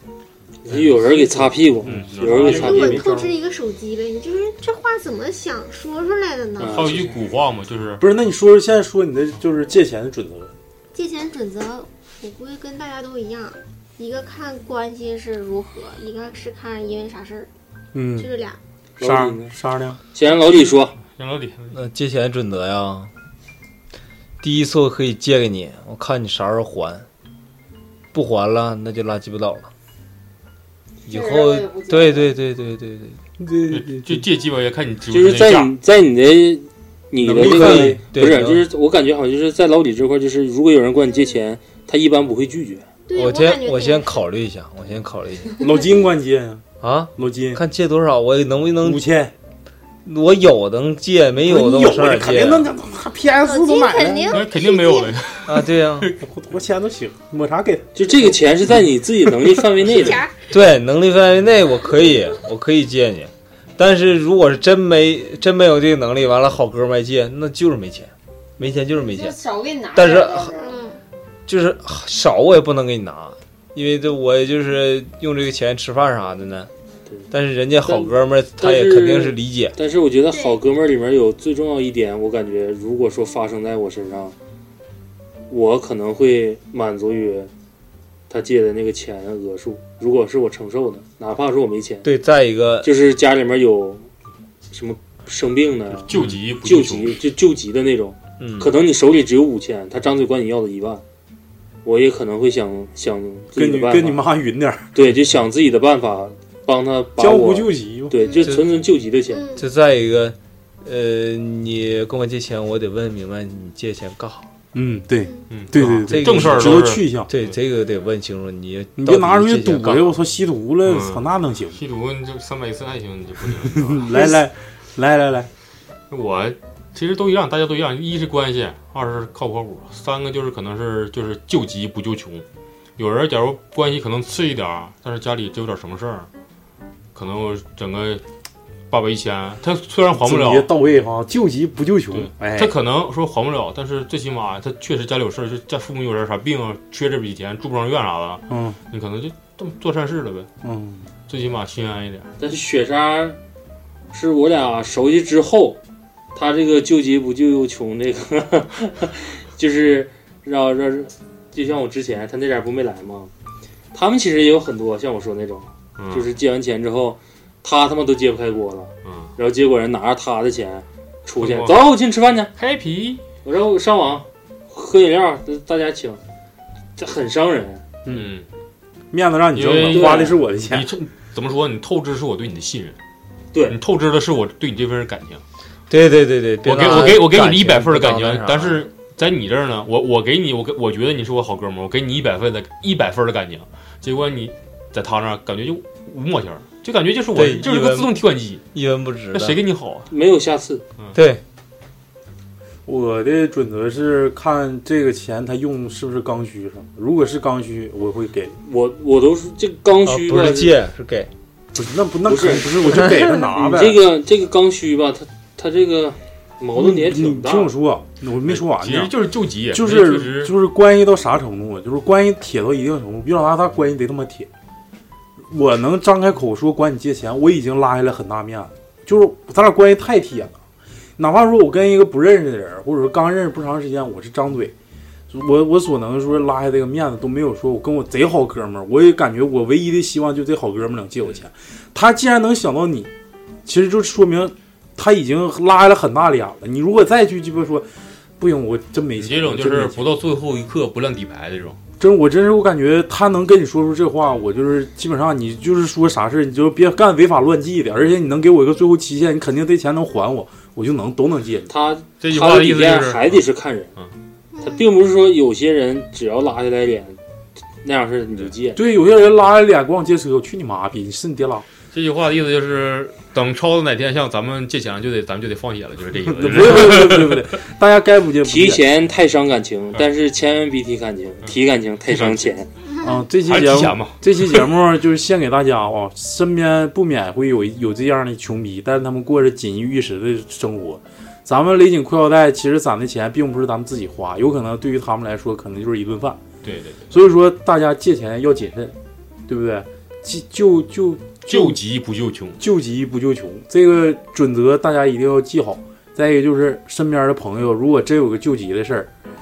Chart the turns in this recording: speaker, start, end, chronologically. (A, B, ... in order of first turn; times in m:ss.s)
0:00.6-0:03.0 A
0:01.2-0:03.3 B
0:01.8-0:02.9 C
0:02.4-0:06.9 D
0:06.6-0:07.2 A
0:06.7-0:08.0 C
0:08.0-0:10.5 B
0:10.9-0:17.5 D
0:17.9-0:18.3 B
0:18.2-0:18.6 D
0:19.0-0:19.5 A
0:19.0-0:20.0 B
0:20.1-0:21.0 A
0:21.0-0:21.8 C
0:21.7-0:23.1 E
0:24.4-0:27.1 E
0:28.1-0:29.7 E
0:31.1-0:33.2 E
0:31.1-0:32.3 F
0:33.4-0:34.1 B
0:33.7-0:35.7 C
0:35.1-0:42.8 A
0:37.2-0:38.0 B
0:37.3-0:38.6 E
0:43.1-0:44.2 D
0:43.1-0:45.6 E
0:45.6-0:46.6 B
0:46.8-0:49.0 E
0:47.2-0:47.6 B
0:48.8-0:49.3 B
0:50.0-0:52.7 E
0:51.4-0:54.4 B
0:53.4-0:55.2 D
0:54.3-0:56.1 C
0:55.4-0:56.1 E
0:56.2-0:58.1 B
0:57.9-1:00.2 A
0:59.9-1:00.3 D
1:00.5-1:09.4 E
1:08.9-1:10.8 F
1:09.9-1:10.6 E
1:10.6-1:11.0 D
1:11.5-1:16.7 E
1:17.3-1:19.8 E
1:17.8-1:24.3 A
1:20.3-1:20.6 D
1:25.5-1:27.5 A
1:28.3-1:32.1 A
1:32.0-1:32.9 E
1:32.8-1:34.1 A
1:34.7-1:41.0 A
1:36.1-1:37.2 C
1:38.4-1:38.7 E
1:41.8-1:44.2 A
1:43.5-1:44.9 B
1:44.9-1:49.5 A
1:47.2-1:48.1 B
1:49.3-1:49.7 D
1:49.5-1:54.5 E
1:54.7-1:57.3 B
1:55.5-1:57.5 C
1:55.9-2:00.1 E
1:59.0-2:01.8 B
2:00.8-2:04.1 C
2:03.6-2:05.5 B
2:06.1-2:12.4 C
2:13.0-2:16.3 C
2:17.1-2:18.2 C
2:18.9-2:20.7 C
2:20.2-2:22.7 B
2:22.1-2:30.5 C
2:28.5-2:28.8 B
2:30.6-2:31.0 B
2:31.3-2:32.3 C
2:32.4-2:33.4 A
2:34.1-2:35.8 A
2:36.3-2:43.3 A
2:43.9-2:52.5 A
2:46.0-2:46.3 C
2:49.0-2:49.3 C
2:51.4-2:51.8 C
2:52.6-2:53.2 C
2:53.4-2:56.2 A
2:57.0-2:57.8 A
2:58.1-2:58.5 C
2:59.1-3:00.9 B
2:59.5-3:03.0 C
2:59.9-3:00.4 A
3:03.5-3:03.8 A
3:03.6-3:05.4 C
3:05.9-3:08.9 E
3:06.6-3:18.6 C
3:17.3-3:18.2 E
3:18.7-3:19.6 E
3:19.3-3:20.1 C
3:20.1-3:20.8 A
3:21.1-3:21.4 E
3:22.8-3:28.6 B
3:28.6-3:30.8 A
3:30.0-3:31.3 E
3:31.7-3:34.0 B
3:32.2-3:37.7 A
3:36.7-3:39.2 B
3:38.4-3:40.5 C
3:39.7-3:44.5 B
3:45.5-3:50.6 B
3:51.2-3:54.7 B
3:55.3-4:03.1 B
4:03.6-4:07.8 B
4:08.4-4:10.1 B
4:09.2-4:11.8 C
4:12.0-4:21.7 B
4:21.7-4:23.9 A
4:22.2-4:23.4 C
4:24.5-4:24.9 D
4:24.6-4:27.2 A
4:27.8-4:28.8 A
4:28.7-4:31.6 B
4:31.9-4:37.4 C
4:36.3-4:38.8 B
4:38.4-4:42.7 A
4:41.4-4:42.6 C
4:43.0-4:56.4 B
4:43.4-4:44.6 C
4:56.6-4:57.0 C
4:57.1-4:59.0 B
4:59.5-5:01.8 B
5:01.4-5:02.6 C
5:02.6-5:09.1 B